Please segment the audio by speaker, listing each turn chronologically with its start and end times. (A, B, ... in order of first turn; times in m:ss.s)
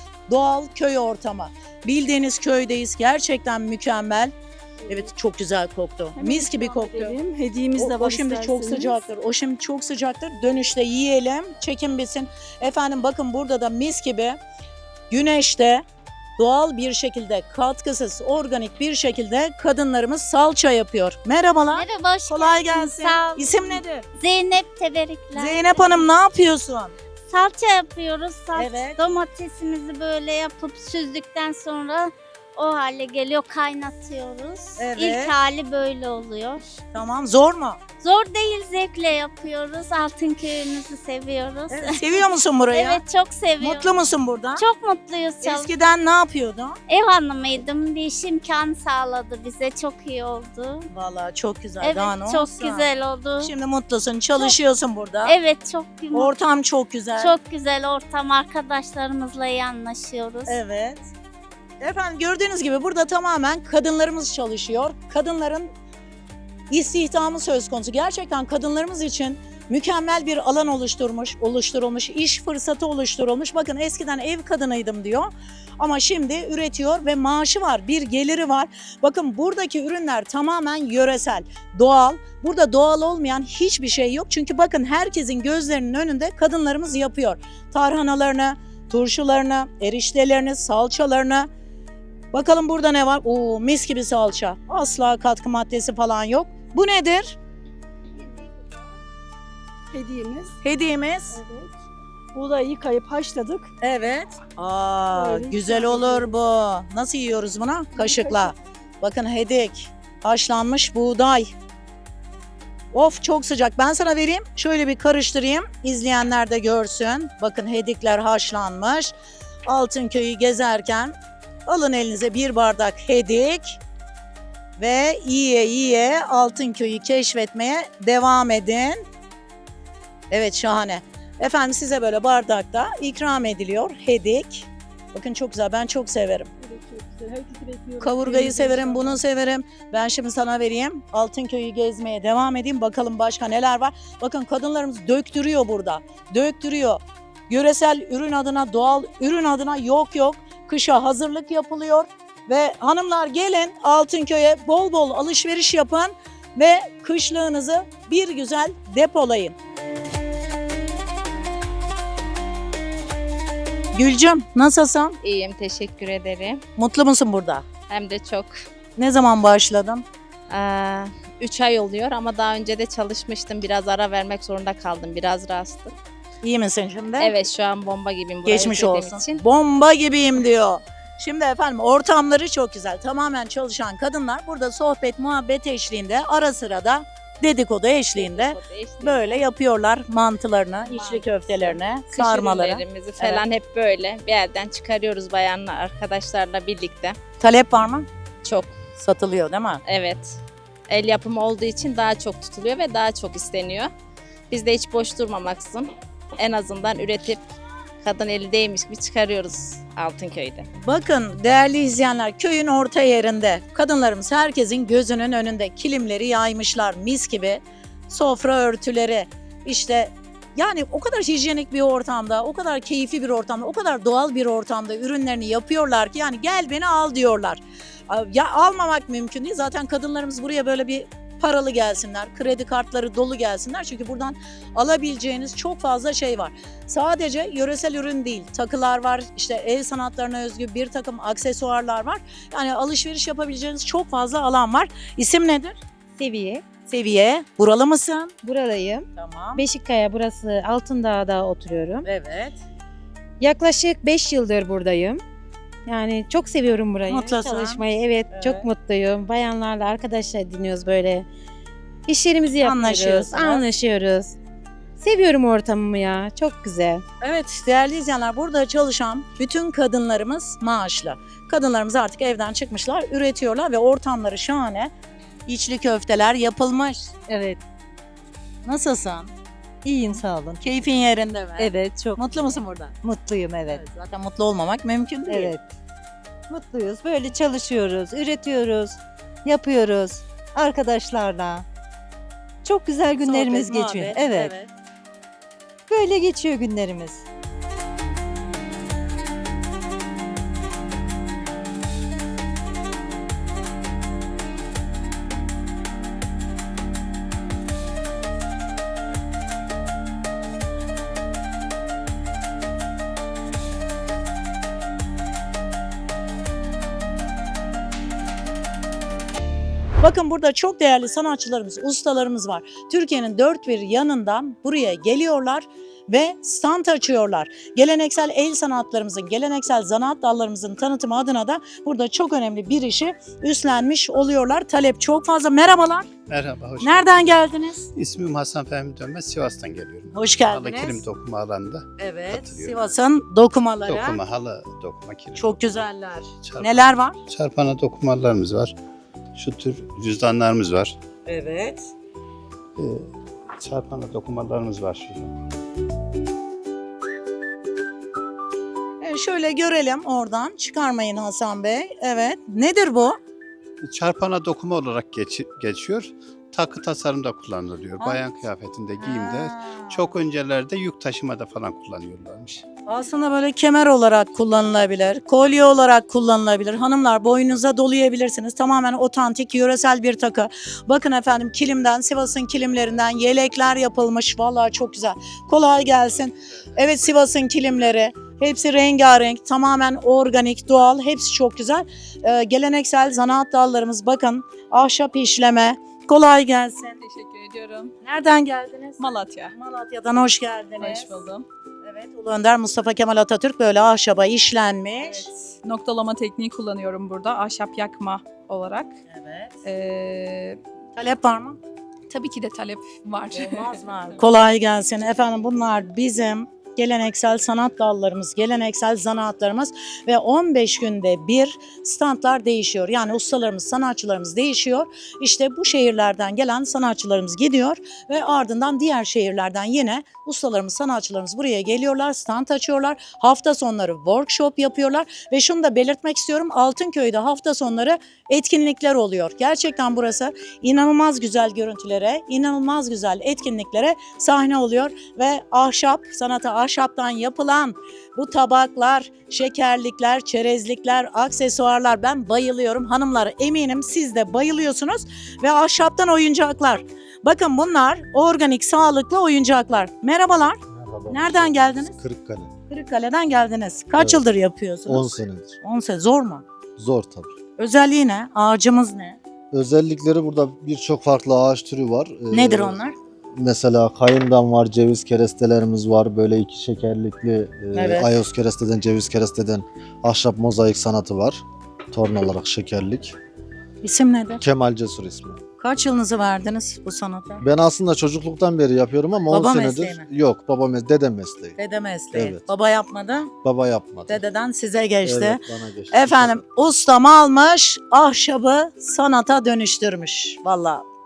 0:00.3-0:04.3 A
0:04.9-0:07.2 A
0:06.2-0:09.0 B
0:07.8-0:14.4 A
0:15.1-0:15.8 A
0:16.4-0:24.0 A
0:21.7-0:26.1 C
0:25.4-0:26.9 A
0:27.3-0:36.6 C
0:28.6-0:29.0 A
0:34.8-0:35.3 A
0:36.9-0:37.8 A
0:38.0-0:43.9 C
0:41.7-0:43.0 A
0:43.6-0:44.7 A
0:44.6-0:45.7 C
0:45.4-0:46.8 A
0:46.9-0:50.9 C
0:50.9-0:52.9 A
0:51.8-0:53.5 C
0:53.4-0:55.3 A
0:55.2-0:56.4 C
0:56.1-0:57.3 A
0:57.2-1:00.6 C
1:00.5-1:01.0 A
1:01.8-1:05.7 A
1:06.7-1:31.5 A
1:32.3-1:37.4 A
1:39.9-1:40.6 B
1:40.6-1:41.4 A
1:41.3-1:41.7 B
1:42.3-1:43.7 B
1:43.8-1:51.6 A
1:45.1-1:46.4 B
1:47.9-1:48.4 B
1:52.9-1:59.1 A
1:59.7-2:01.2 A
2:01.7-2:03.8 A
2:04.8-2:09.0 A
2:10.3-2:16.5 A
2:16.6-2:19.2 B
2:18.0-2:39.6 A
2:43.9-2:45.2 A
2:45.2-2:46.6 D
2:46.8-2:47.6 A
2:47.9-2:48.5 D
2:49.0-2:50.0 A
2:50.5-2:56.0 D
2:56.4-2:57.3 A
2:57.2-2:59.4 D
2:58.4-3:13.4 A
3:08.1-3:09.4 D
3:10.8-3:17.2 D
3:17.4-3:18.1 A
3:18.4-3:18.7 D
3:19.0-3:19.8 A
3:19.8-3:23.9 D
3:24.5-3:27.4 D
3:28.0-3:30.7 D
3:30.8-4:05.8 A
4:06.2-4:06.6 E
4:06.9-4:08.3 A
4:08.4-4:12.1 E
4:09.2-4:09.6 A
4:12.0-4:12.6 A
4:13.4-4:15.2 E
4:15.9-4:21.3 E
4:17.1-4:18.7 A
4:22.1-4:24.3 E
4:22.6-4:23.6 A
4:25.0-4:27.0 E
4:27.2-4:34.9 A
4:35.5-4:37.2 A
4:37.3-4:37.6 F
4:38.6-4:39.3 A
4:39.8-4:40.7 F
4:40.6-4:42.9 A
4:41.6-4:42.2 F
4:43.0-4:43.8 F
4:43.7-4:45.5 A
4:45.3-4:45.6 F
4:46.5-4:51.7 F
4:52.6-4:54.5 F
4:53.2-4:54.7 A
4:55.9-4:57.2 F
5:20.0-5:36.1 A
5:36.3-5:43.0 G
5:36.8-5:37.9 A
5:40.1-5:41.0 A
5:42.0-5:44.2 A
5:43.8-5:45.9 G
5:45.4-5:47.2 A
5:46.4-5:48.7 G
5:49.4-5:51.0 G
5:51.3-5:51.9 A
5:53.6-5:55.3 G
5:59.0-6:03.2 A
6:03.8-6:12.6 G
6:09.0-6:10.0 A
6:12.9-6:37.0 A
6:37.0-6:37.9 H
6:38.0-6:41.2 A
6:39.0-6:39.5 H
6:40.8-6:41.4 H
6:41.8-6:45.3 A
6:45.4-6:48.9 H
6:49.1-6:49.6 A
6:49.6-6:50.6 H
6:51.0-6:51.6 A
6:52.1-6:53.8 H
6:53.3-7:40.6 A
7:40.7-7:42.5 I
7:41.1-7:42.0 A
7:42.7-7:46.4 A
7:44.9-7:45.5 I
7:46.8-7:47.3 I
7:47.6-7:49.2 A
7:49.5-7:52.8 I
7:52.3-7:52.9 A
7:53.4-8:03.2 I
7:57.7-7:58.1 A
8:03.8-8:04.4 A
8:04.4-8:05.4 I
8:05.6-8:07.4 A
8:07.4-8:11.6 I
8:09.3-8:10.0 A
8:11.6-8:13.3 A
8:12.1-8:12.5 I
8:13.4-8:14.2 I
8:14.1-8:20.8 A
8:15.0-8:16.4 I